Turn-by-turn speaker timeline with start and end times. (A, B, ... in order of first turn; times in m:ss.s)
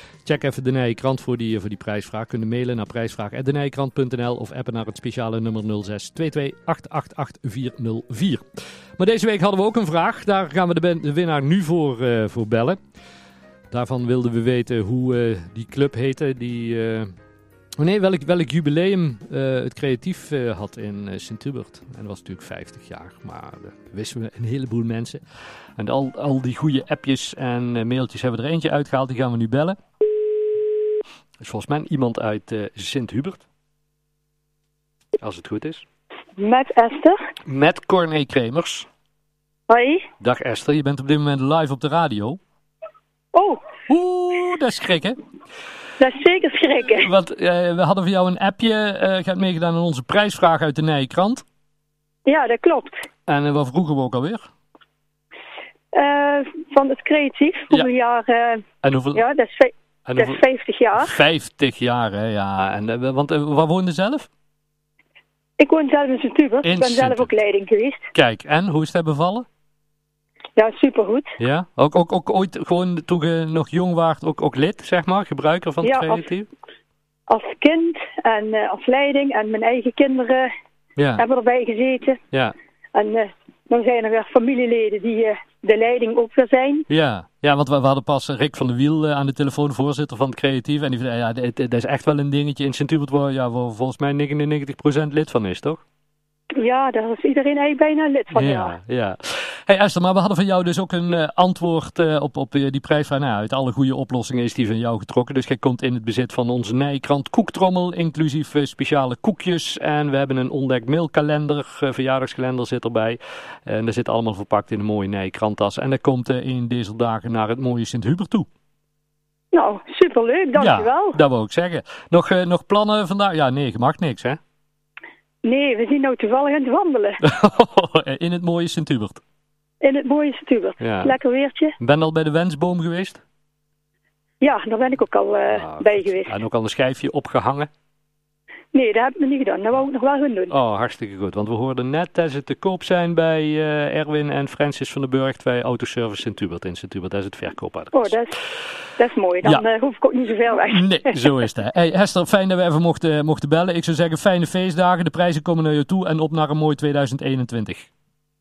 0:00.2-0:08.4 A
0:09.0-0:12.8 A
0:13.7-0:17.1 A
0:17.8-0:25.2 A
0:25.8-0:29.8 A
0:31.4-0:33.4 A
0:35.2-0:35.8 A
0:36.4-0:37.2 B
0:37.5-0:38.9 A
0:39.7-0:40.0 B
0:40.2-0:42.4 A
0:43.3-0:43.6 B
0:43.9-0:45.2 A
0:46.0-0:47.1 B
0:46.9-0:51.4 A
0:52.3-0:53.0 B
0:53.3-0:54.5 A
0:55.9-0:58.6 B
0:58.8-0:59.2 A
0:59.2-1:01.2 B
1:00.1-1:00.4 A
1:00.9-1:04.3 A
1:05.6-1:08.1 B
1:06.6-1:07.3 A
1:08.2-1:09.4 A
1:10.6-1:11.3 B
1:11.4-1:16.5 A
1:15.8-1:16.2 B
1:17.3-1:20.5 B
1:21.0-1:21.2 A
1:21.2-1:22.2 B
1:22.9-1:26.9 B
1:26.9-1:35.8 A
1:36.5-1:38.8 B
1:38.3-1:58.5 A
1:59.5-2:01.2 B
2:00.6-2:04.4 A
2:05.4-2:07.2 B
2:07.2-2:09.2 A
2:09.8-2:11.8 B
2:10.8-2:11.2 A
2:11.8-2:13.2 A
2:14.4-2:16.3 B
2:15.5-2:17.7 A
2:18.7-2:20.5 B
2:20.5-2:28.2 A
2:27.9-2:28.3 B
2:29.0-2:31.2 B
2:30.7-2:37.9 A